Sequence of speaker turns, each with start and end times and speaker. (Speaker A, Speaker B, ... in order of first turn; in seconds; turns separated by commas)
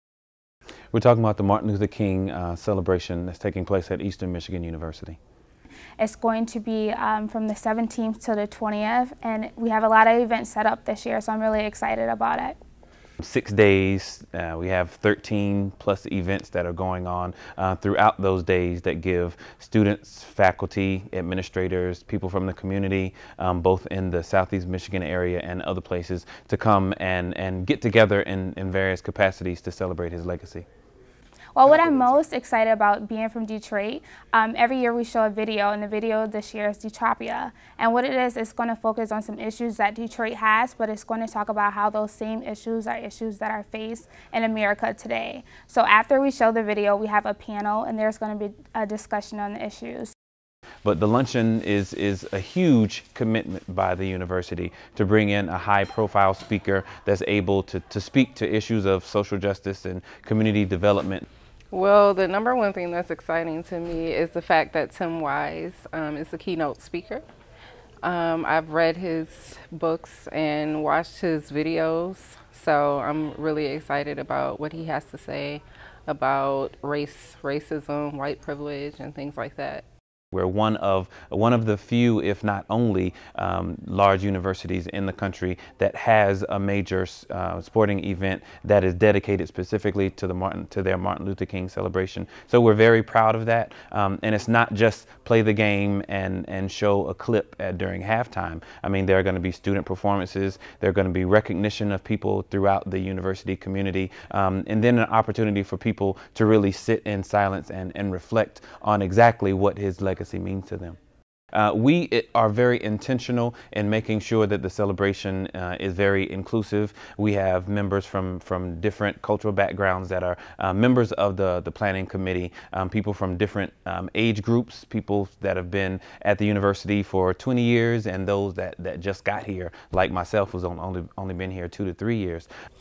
Speaker A: 0.9-5.2, Speaker B: 6.0-12.6, Speaker A: 13.2-30.6, Speaker B: 31.5-50.1, Speaker A: 50.8-61.2, Speaker C: 61.7-67.2, Speaker C: 68.0-79.8, Speaker A: 80.3-111.0, Speaker A: 111.5-132.5